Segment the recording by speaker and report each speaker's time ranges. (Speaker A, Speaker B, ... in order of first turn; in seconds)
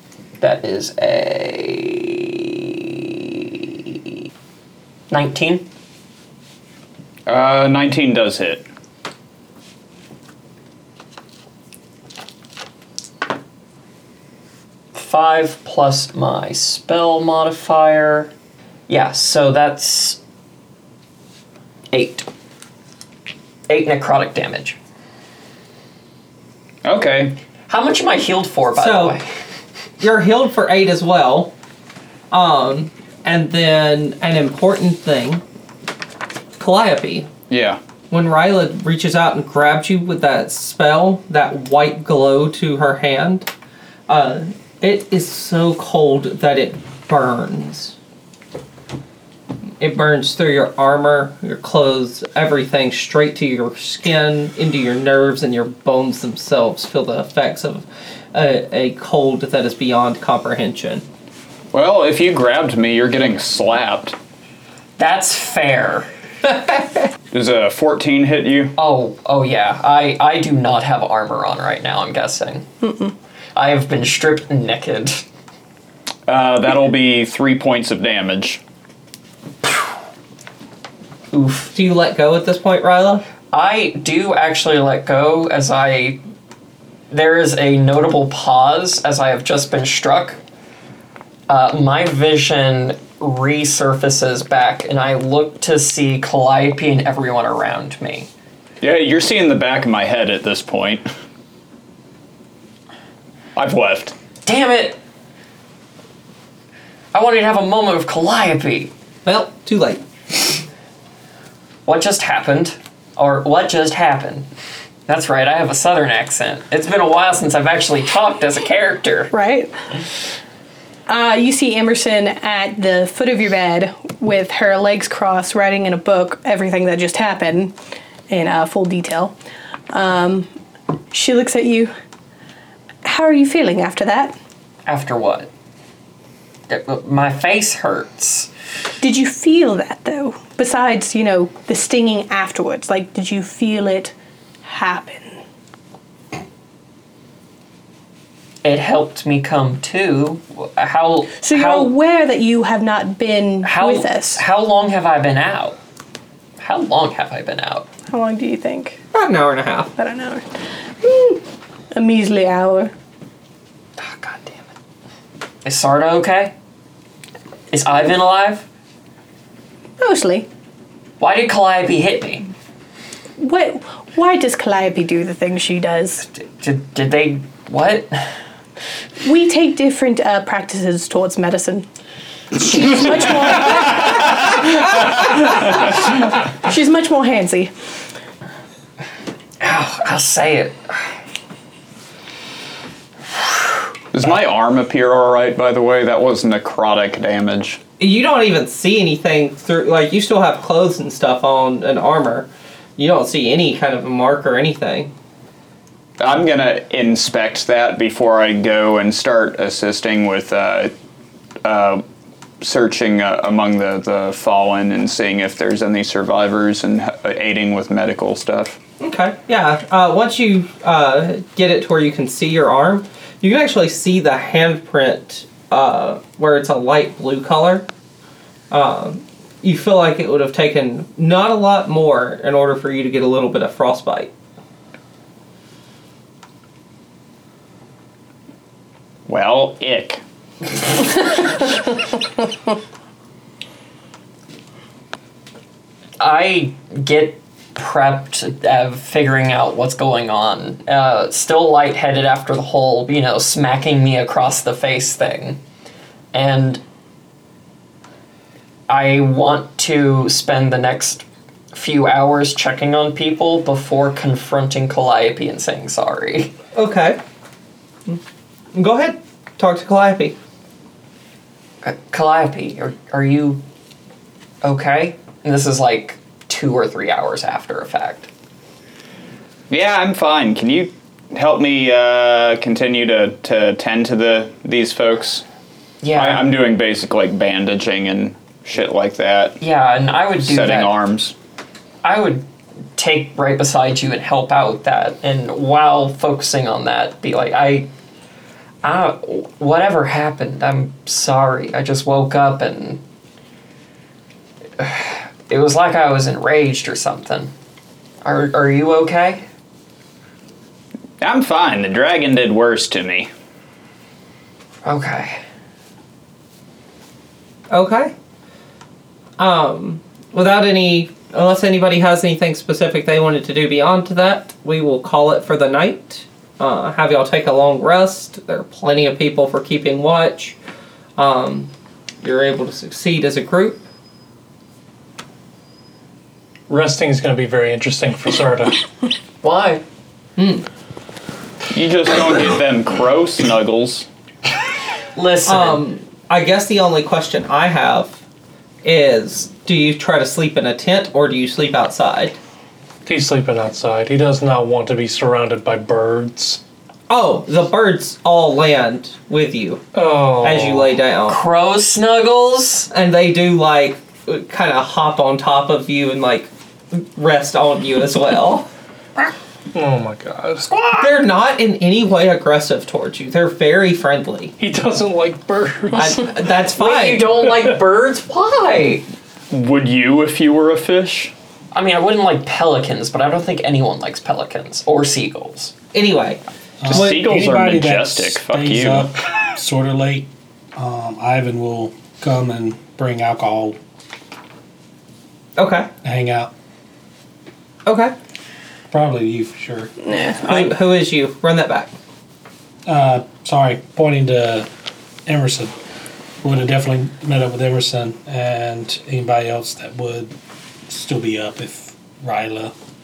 Speaker A: 0.4-4.2, 5.1-5.7, 14.9-18.3, 18.9-20.2, 21.9-22.3, 23.7-24.8, 27.7-29.3, 65.0-66.1, 68.8-72.7, 73.5-75.2, 81.3-81.7, 83.5-86.2, 87.1-90.4, 91.5-98.3, 104.5-105.0, 107.1-108.9, 111.9-114.5, 115.1-119.3, 134.9-135.5, 136.7-138.5, 148.6-151.9, 153.6-155.8, 156.6-157.9, 164.0-164.7, 165.6-166.5, 167.7-168.7, 171.2-172.5, 176.3-178.3, 189.6-191.0, 246.2-255.6, 256.3-256.8, 258.9-266.6, 271.8-273.6, 274.6-278.3, 286.0-286.5, 289.6-290.9, 292.0-297.9, 298.8-303.0, 304.8-307.5, 308.2-309.4, 314.8-315.4, 339.4-339.8, 345.2-345.8, 361.3-362.9, 370.7-371.0, 376.8-379.1, 381.7-385.7
Speaker B: 7.3-8.7, 26.8-27.4, 37.5-37.8, 61.7-64.2, 67.3-68.8, 76.3-78.6, 98.8-101.1, 103.6-104.1, 194.1-197.8, 206.2-210.9, 211.6-212.0, 212.6-218.8, 239.3-240.2, 279.7-285.4, 286.1-289.6, 290.4-291.3, 311.2-313.3, 341.7-344.1, 379.5-381.3, 386.9-389.1
Speaker C: 28.8-29.2, 30.0-31.5, 32.3-35.4, 36.6-37.3, 38.1-43.5, 44.1-48.0, 49.8-61.0, 81.7-83.2, 109.2-110.0, 159.1-159.9, 198.0-205.1, 219.0-227.9, 228.7-234.3, 266.8-267.2, 268.8-270.4, 317.7-318.1, 319.4-330.6, 331.2-331.7, 332.2-333.8, 340.4-340.6, 345.4-348.2, 348.8-352.4, 357.1-359.8, 360.4-361.4, 362.9-368.7, 371.0-374.5, 375.9-377.3, 385.9-386.4, 395.6-395.9, 397.9-398.1, 400.4-401.9
Speaker D: 72.8-73.1, 119.3-119.7, 121.1-127.8, 128.3-129.3, 129.9-130.5, 131.1-131.9, 133.0-134.4, 139.0-145.4, 151.4-154.4, 158.1-159.0, 160.0-160.4, 161.0-162.9, 170.0-170.5, 173.4-176.2, 179.2-181.9, 182.5-187.7, 400.1-400.5
Speaker E: 336.7-338.8, 353.1-356.6, 359.9-360.9, 369.7-370.8, 374.6-376.3, 377.5-377.8
Speaker F: 386.8-393.8, 396.0-396.5, 398.9-399.9, 402.9-404.7, 405.3-405.7, 406.4-410.4, 410.9-412.7